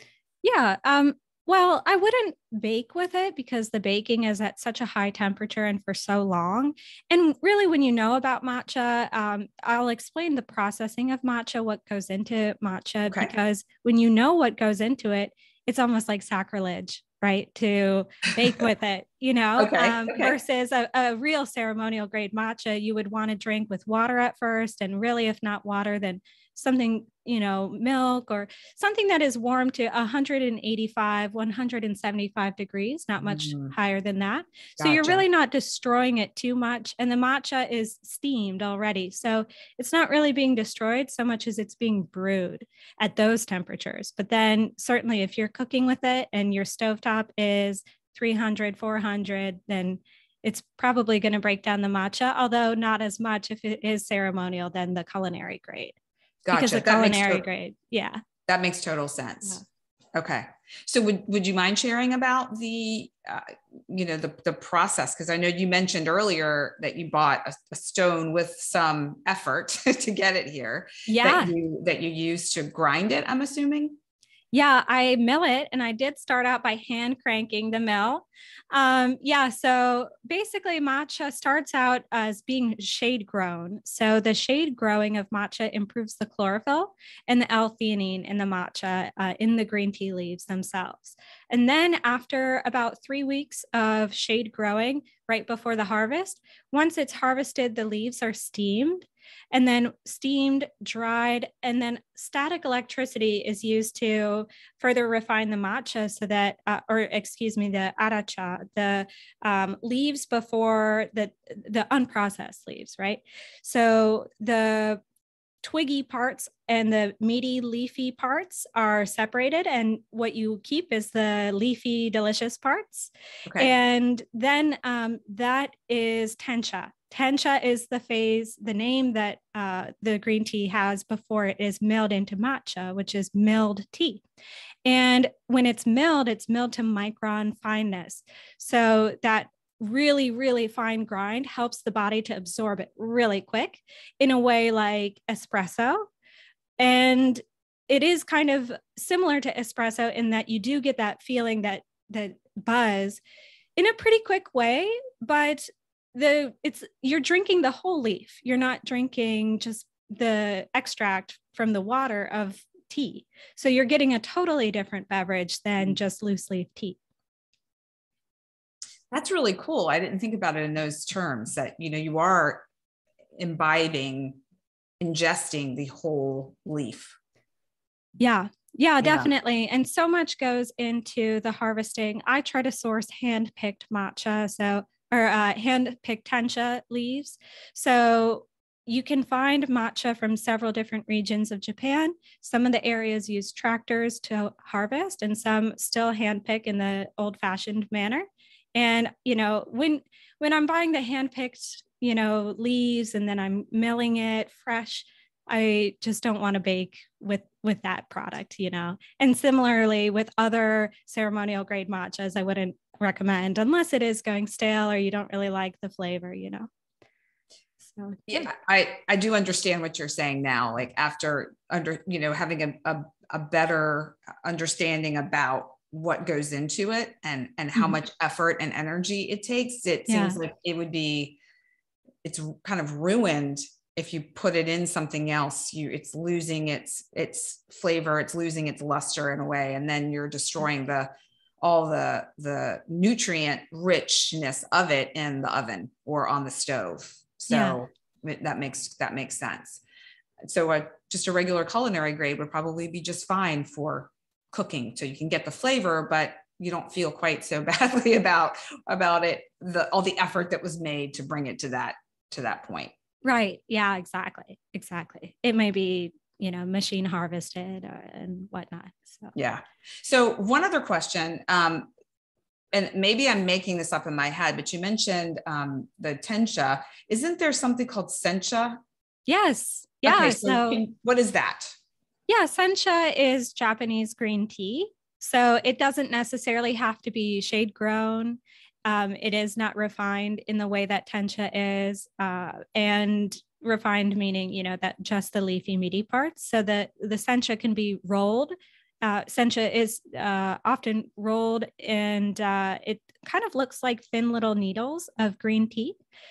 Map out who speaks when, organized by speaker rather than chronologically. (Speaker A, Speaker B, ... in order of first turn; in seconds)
Speaker A: 0.4-56.0, 56.5-58.2, 71.1-71.5, 74.5-115.0, 115.6-134.2, 134.8-146.1, 146.8-153.2, 153.8-167.0, 178.2-216.7, 217.8-218.5, 230.1-230.4, 247.5-247.8, 263.2-269.4, 279.3-280.8, 282.3-306.0
Speaker B: 19.6-20.4, 33.2-33.7, 34.8-35.2, 56.5-57.4, 58.5-59.6, 60.1-74.0, 123.5-123.7, 169.1-172.7, 173.4-174.4, 175.0-177.2, 179.0-179.3, 218.3-231.4, 232.2-241.1, 241.6-249.8, 250.4-262.9, 269.4-271.9, 272.7-278.8, 280.0-281.8